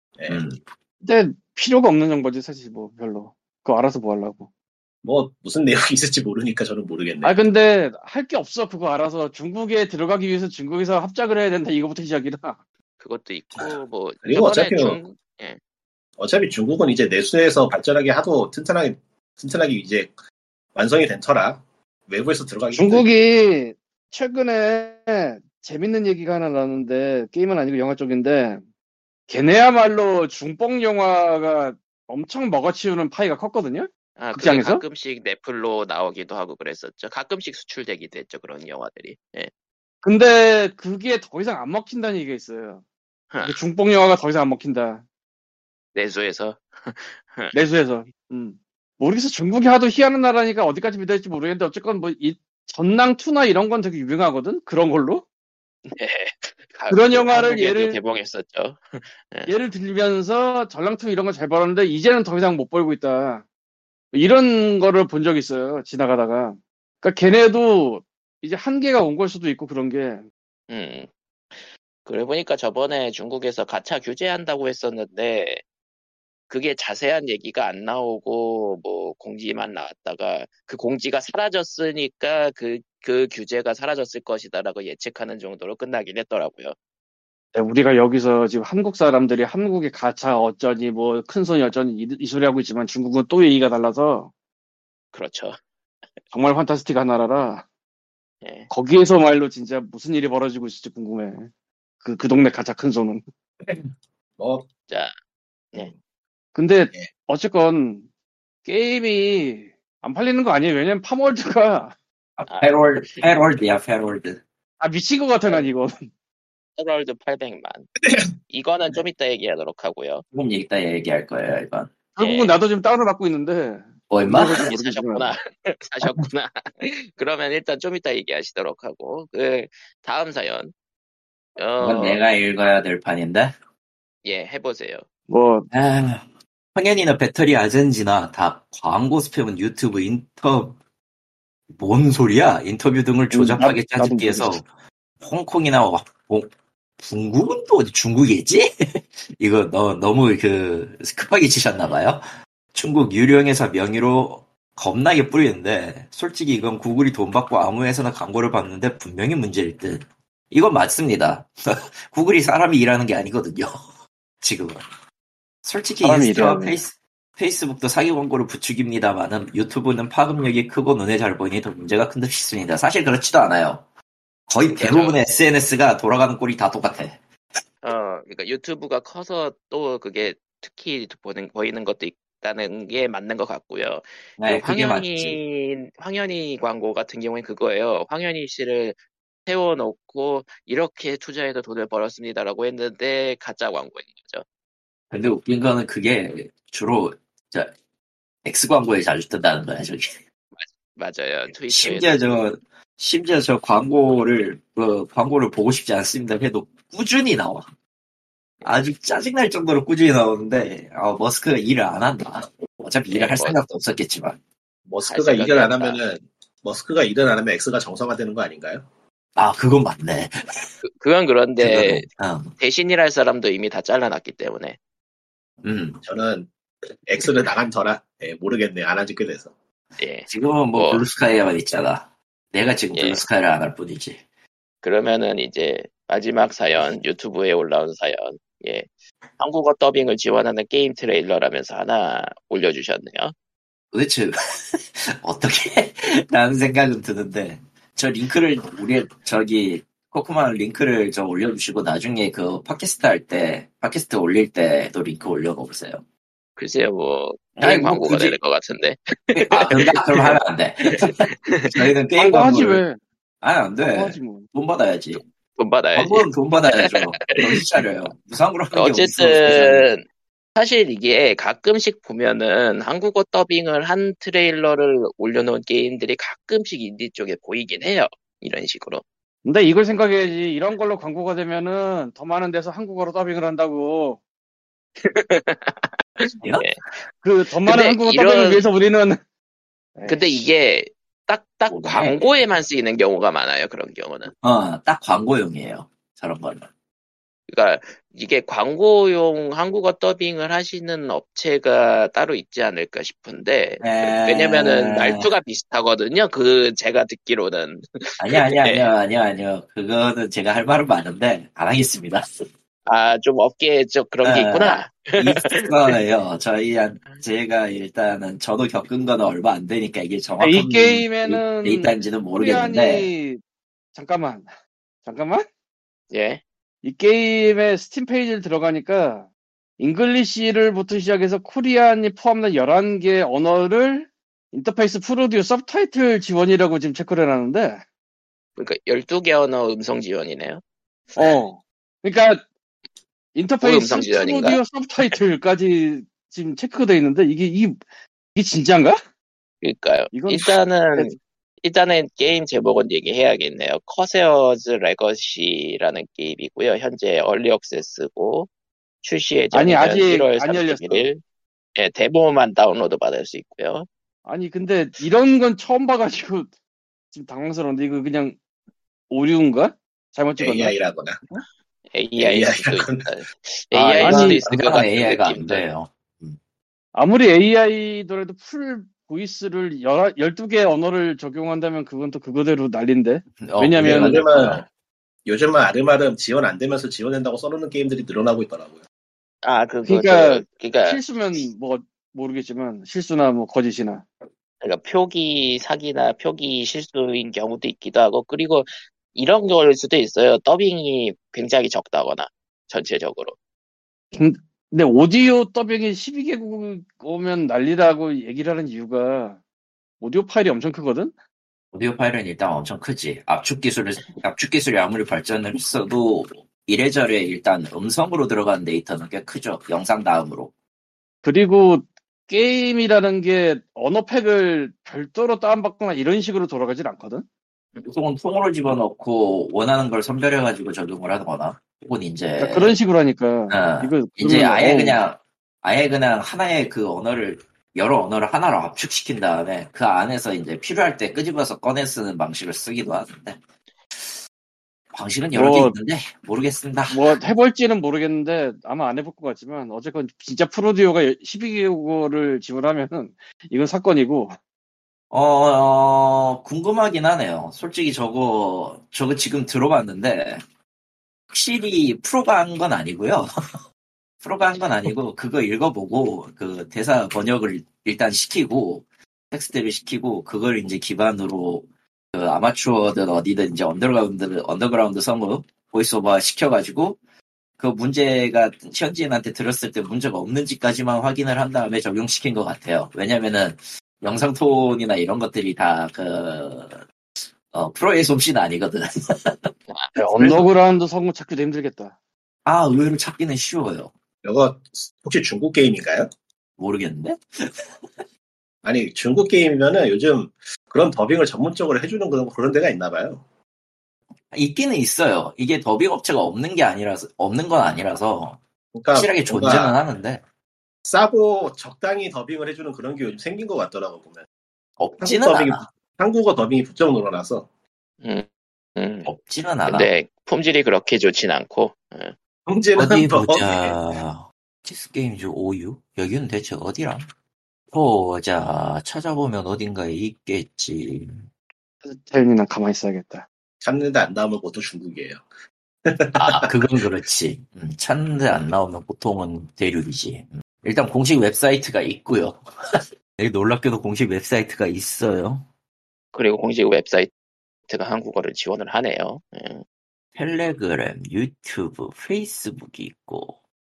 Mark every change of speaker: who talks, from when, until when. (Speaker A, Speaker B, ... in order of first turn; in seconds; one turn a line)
Speaker A: 0.3-0.7
Speaker B: 1.0-4.5
Speaker C: 5.0-7.3
Speaker B: 7.2-12.6
Speaker D: 13.0-15.6
Speaker C: 13.5-15.0
Speaker C: 16.2-20.1
Speaker C: 20.7-23.1
Speaker B: 22.7-28.6
Speaker B: 29.3-34.8
Speaker D: 34.2-39.5
Speaker B: 40.0-42.8
Speaker D: 43.3-43.6
Speaker B: 43.4-45.0
Speaker D: 45.9-47.5
Speaker B: 47.5-55.2
Speaker D: 55.9-59.5
Speaker B: 56.9-58.0
Speaker B: 59.5-63.4
Speaker B: 64.1-70.2
Speaker D: 70.7-75.6
Speaker D: 76.5-86.7
Speaker B: 87.5-94.3
Speaker D: 95.1-95.6
Speaker B: 96.3-97.6
Speaker D: 98.4-98.7
Speaker B: 98.7-101.5
Speaker B: 102.0-103.2
Speaker C: 103.7-104.7
Speaker B: 106.5-108.0
Speaker B: 108.6-111.9
Speaker A: 112.4-114.4
Speaker D: 112.5-113.2
Speaker B: 114.8-116.1
Speaker D: 116.8-117.9
Speaker C: 118.0-118.3
Speaker D: 118.5-120.2
Speaker A: 120.3-122.0
Speaker B: 122.2-125.3
Speaker D: 122.2-122.6
Speaker A: 124.1-124.7
Speaker D: 124.5-130.7
Speaker D: 131.6-132.2
Speaker A: 131.8-133.5
Speaker D: 134.2-135.0
Speaker B: 135.3-135.7
Speaker A: 135.7-140.8
Speaker A: 141.7-144.7
Speaker B: 143.3-144.6
Speaker A: 145.2-148.7
Speaker A: 149.4-152.2
Speaker A: 152.7-163.8
Speaker A: 164.4-164.8
Speaker A: 165.6-173.8
Speaker B: 166.0-166.8
Speaker A: 174.5-177.2
Speaker D: 174.7-175.2
Speaker D: 177.8-194.4
Speaker A: 184.4-185.4
Speaker A: 195.1-197.7
Speaker A: 198.4-200.1
Speaker D: 200.6-202.2
Speaker A: 201.7-207.7
Speaker A: 208.6-214.4
Speaker D: 213.1-213.6
Speaker C: 214.9-218.8
Speaker D: 215.1-216.0
Speaker A: 219.3-220.7
Speaker D: 220.8-224.8
Speaker A: 221.6-222.5
Speaker A: 225.6-226.0
Speaker C: 226.0-229.5
Speaker D: 230.0-231.0
Speaker A: 230.3-234.2
Speaker D: 232.9-233.2
Speaker D: 234.8-243.3
Speaker A: 243.9-256.0
Speaker D: 256.6-261.7
Speaker A: 257.6-258.4
Speaker A: 259.3-262.8
Speaker B: 262.1-263.0
Speaker A: 263.4-265.2
Speaker B: 263.8-264.5
Speaker D: 265.6-266.9
Speaker A: 265.9-269.9
Speaker D: 268.7-270.0
Speaker D: 270.6-279.0
Speaker B: 279.4-284.2
Speaker D: 285.0-286.8
Speaker A: 286.4-286.7
Speaker B: 287.2-289.2
Speaker D: 287.6-288.6
Speaker B: 289.9-290.4
Speaker D: 290.1-294.3
Speaker A: 291.7-292.3
Speaker A: 294.4-296.7
Speaker D: 297.5-308.9
Speaker A: 303.8-305.3
Speaker A: 308.2-312.2
Speaker D: 312.9-315.9
Speaker A: 314.2-323.1
Speaker B: 320.4-323.4
Speaker B: 323.9-324.5
Speaker B: 325.0-325.4
Speaker D: 326.1-326.4
Speaker B: 326.8-329.3
Speaker B: 329.8-337.8
Speaker D: 338.6-340.6
Speaker B: 341.1-342.4
Speaker B: 343.3-347.8
Speaker D: 343.6-345.2
Speaker B: 348.3-349.0
Speaker D: 349.6-358.5
Speaker B: 350.1-351.2
Speaker D: 359.0-361.2
Speaker B: 359.5-361.1
Speaker D: 361.8-363.9
Speaker B: 364.2-366.5
Speaker B: 367.1-368.4
Speaker B: 369.1-370.7
Speaker C: 370.4-371.2
Speaker D: 371.9-375.6
Speaker C: 372.2-373.1
Speaker A: 373.7-376.4
Speaker B: 374.0-374.4
Speaker B: 376.9-384.2
Speaker A: 383.4-384.6
Speaker C: 383.8-384.6
Speaker C: 385.2-388.8
Speaker D: 389.4-391.0
Speaker B: 389.9-394.0
Speaker D: 394.6-403.4
Speaker B: 404.1-409.4
Speaker B: 410.0-411.1
Speaker A: 411.7-420.5
Speaker B: 421.2-427.2
Speaker A: 427.8-432.8
Speaker B: 432.4-435.0
Speaker A: 433.5-443.4
Speaker A: 444.9-447.1
Speaker B: 445.3-445.8
Speaker B: 446.9-454.4
Speaker A: 455.1-460.4
Speaker A: 461.3-463.3
Speaker A: 464.2-477.0
Speaker A: 477.6-486.8
Speaker A: 487.5-490.5
Speaker B: 490.0-491.9
Speaker A: 492.4-493.9
Speaker C: 494.2-496.1
Speaker A: 496.6-497.7
Speaker C: 498.6-503.2
Speaker A: 504.3-508.4
Speaker C: 508.7-509.7
Speaker A: 508.9-510.2
Speaker C: 510.9-514.2
Speaker A: 514.8-515.6
Speaker C: 515.0-517.5
Speaker D: 518.0-519.1
Speaker A: 519.0-519.9
Speaker D: 519.7-522.1
Speaker C: 522.5-523.7
Speaker A: 522.8-527.0
Speaker A: 527.7-531.2
Speaker B: 531.8-533.2
Speaker C: 533.6-535.2
Speaker C: 535.8-536.5
Speaker A: 536.1-545.5
Speaker D: 546.1-547.1
Speaker D: 547.7-549.6
Speaker A: 550.1-553.3